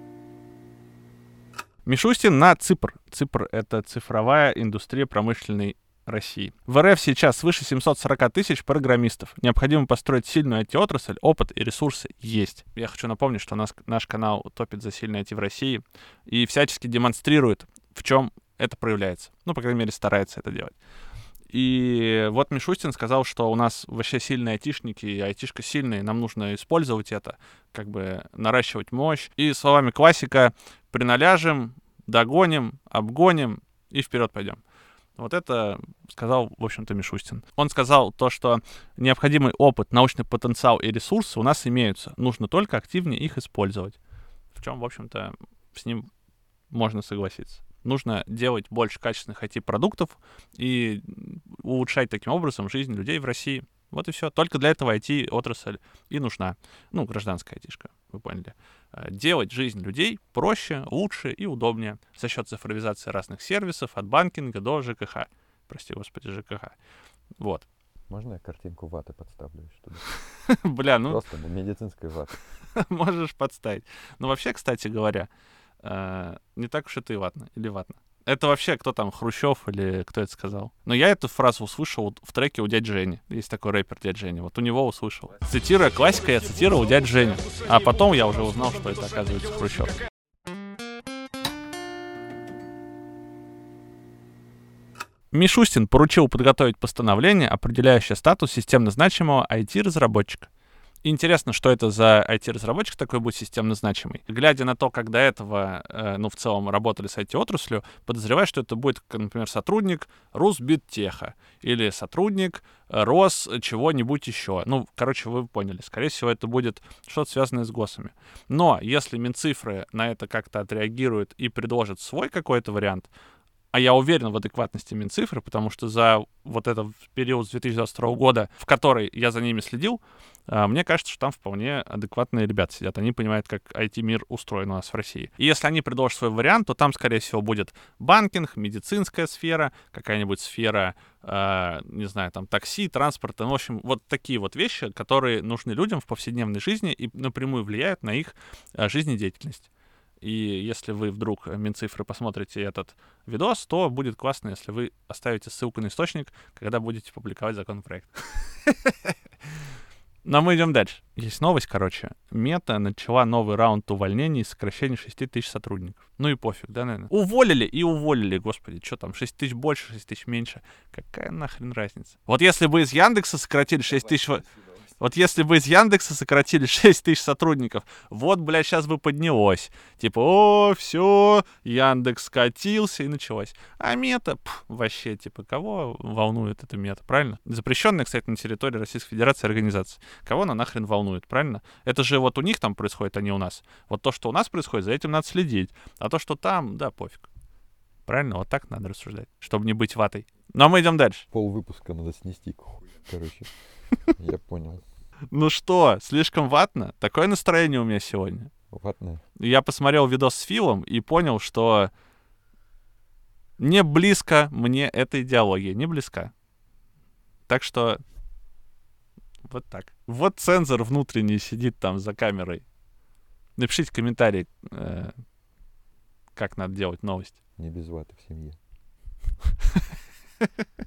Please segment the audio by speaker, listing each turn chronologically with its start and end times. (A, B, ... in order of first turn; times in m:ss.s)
0:01.9-0:20.7 A
0:21.5-0:34.6 A
0:35.2-0:44.0 A
0:44.6-0:46.1 A
0:46.7-1:06.8 A
1:07.4-1:07.7 A
1:08.1-1:10.0 B
1:10.3-1:11.2 A
1:11.1-1:12.3 B
1:12.8-1:15.3 A
1:15.8-1:30.0 A
1:35.3-1:40.5 A
1:41.0-2:03.1 A
2:03.7-2:29.7 A
2:30.2-2:39.2 A
2:40.2-2:54.5 A
2:55.0-3:17.3 A
3:18.1-3:21.3 A
3:21.3-3:24.8 B
3:25.3-3:28.5 A
3:28.7-3:29.2 B
3:29.4-3:31.9 A
3:33.6-3:36.3 A
3:37.5-3:38.0 A
3:39.5-3:42.6 A
3:43.6-3:45.1 A
3:46.4-3:47.4 A
3:47.6-3:48.6 B